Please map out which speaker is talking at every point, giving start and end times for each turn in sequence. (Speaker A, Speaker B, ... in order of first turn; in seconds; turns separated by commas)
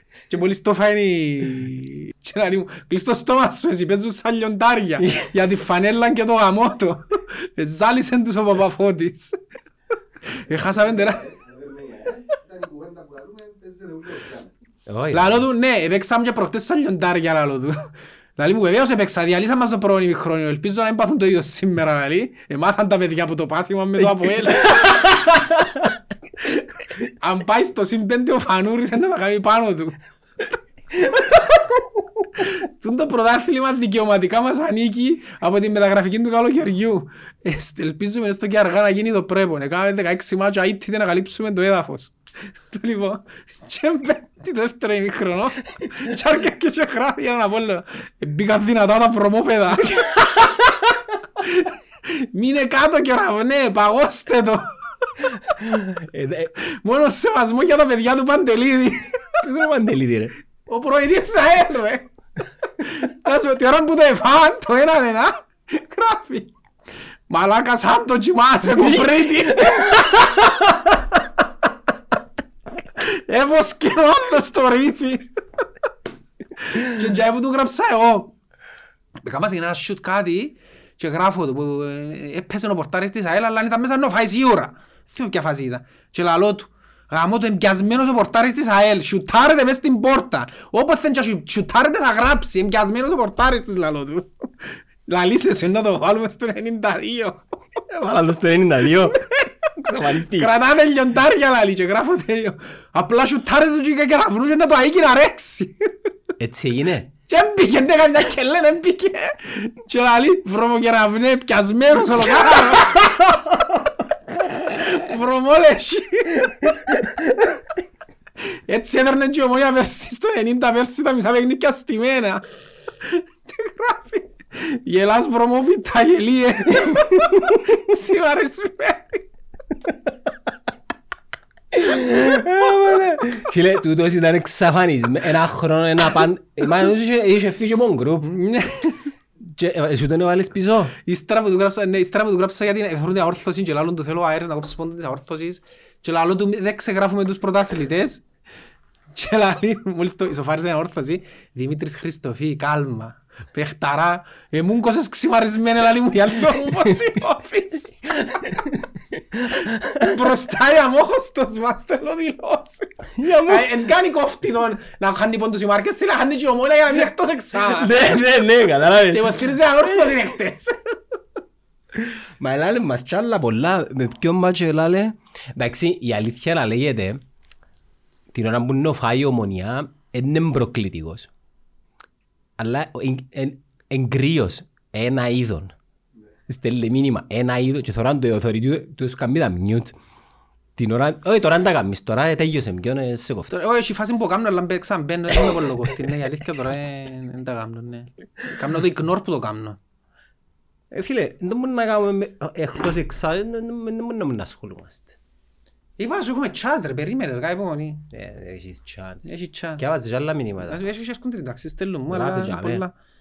Speaker A: 0.3-9.4, Speaker B: 5.0-5.3, Speaker A: 10.3-11.3, Speaker C: 10.5-14.5, Speaker B: 14.9-15.4, Speaker A: 15.1-25.4, Speaker A: 27.1-31.8, Speaker A: 32.4-42.1, Speaker A: 42.7-50.8, Speaker A: 51.4-55.1, Speaker B: 55.4-56.5, Speaker A: 56.6-59.4, Speaker B: 59.4-60.3, Speaker A: 60.6-62.0, Speaker A: 62.8-66.5, Speaker A: 67.3-70.3, Speaker B: 68.7-70.5, Speaker A: 73.0-75.3, Speaker A: 76.6-78.3, Speaker A: 79.2-97.8, Speaker B: 97.9-99.2, Speaker A: 99.1-105.9, Speaker B: 99.8-100.5, Speaker B: 106.4-107.1, Speaker A: 107.3-113.5, Speaker A: 114.3-117.0, Speaker A: 118.4-122.4, Speaker A: 123.0-129.2, Speaker B: 131.7-138.3, Speaker A: 138.3-139.1, Speaker B: 139.4-140.9, Speaker A: 141.0-148.2, Speaker A: 149.1-158.1, Speaker B: 158.1-160.2, Speaker A: 160.0-167.9, Speaker B: 163.2-163.7, Speaker B: 167.6-169.4, Speaker A: 168.9-170.9, Speaker B: 172.0-177.2, Speaker B: 178.3-181.3, Speaker B: 182.6-185.7, Speaker B: 186.5-189.9, Speaker B: 190.8-193.5, Speaker A: 193.5-199.8, Speaker B: 200.9-205.2, Speaker A: 206.0-208.0, Speaker B: 208.1-210.8, Speaker A: 209.2-209.9, Speaker A: 210.7-212.9, Speaker B: 212.1-212.8